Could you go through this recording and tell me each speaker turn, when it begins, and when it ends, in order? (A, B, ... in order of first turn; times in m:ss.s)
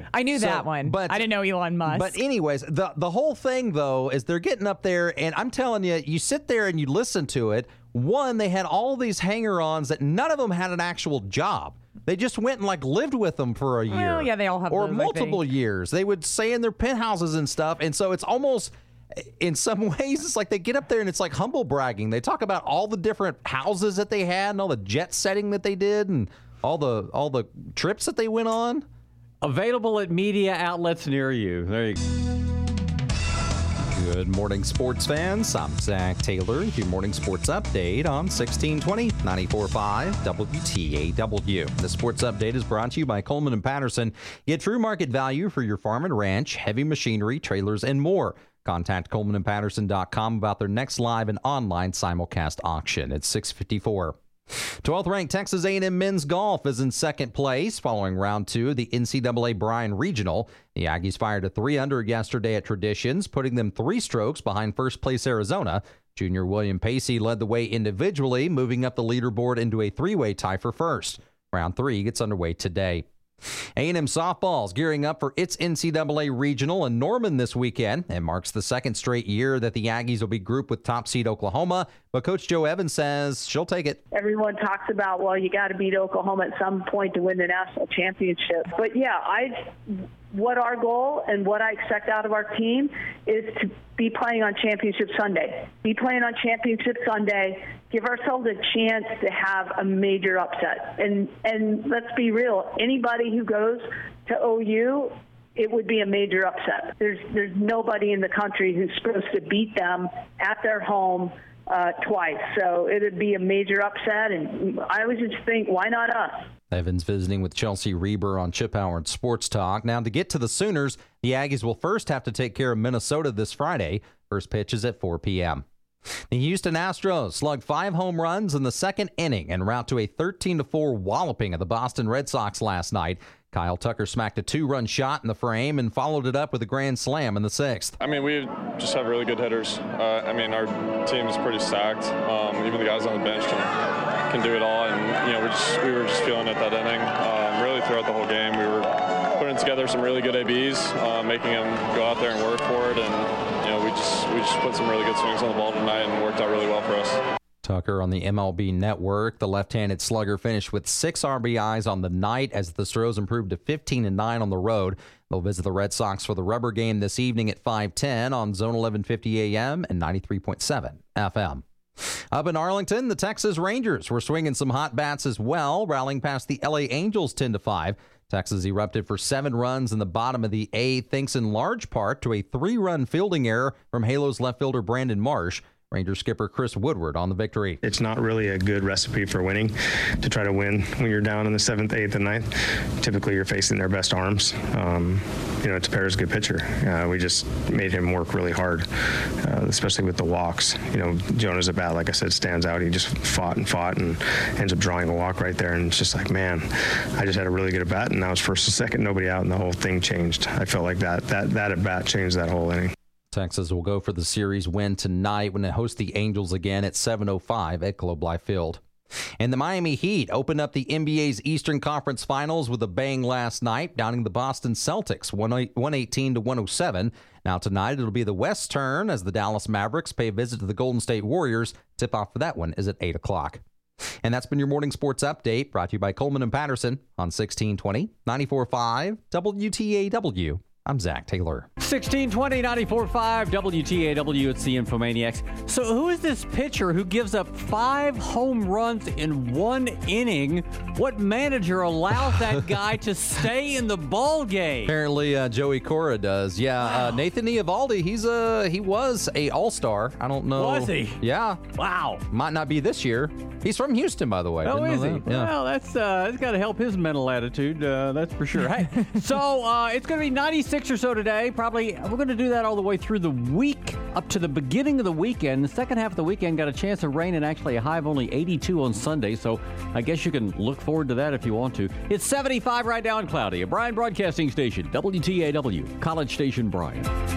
0:00.1-0:02.2 A
0:00.4-0:01.2 B
0:01.8-0:28.8 B
0:13.9-0:15.4 A
0:29.4-0:32.0 C
0:34.0-0:54.2 B
0:54.8-1:13.1 B
1:13.8-1:24.0 B
1:24.1-1:56.5 D
1:56.7-2:05.6 B
2:06.3-2:18.0 B
2:18.0-2:23.7 E
2:24.3-2:37.2 E
2:37.6-2:51.6 B
2:52.3-3:07.8 B
3:07.8-3:12.5 F
3:13.0-3:18.9 F
3:19.4-3:26.7 F
3:27.2-3:32.9 F
3:33.3-3:38.8 B
3:39.4-3:53.6 B
3:54.2-4:01.7 B
4:01.8-4:14.9 C
4:14.9-4:21.7 B
4:20.6-4:21.2 C
4:21.8-4:22.2 C
4:22.3-4:25.5 B
4:24.6-4:47.1 C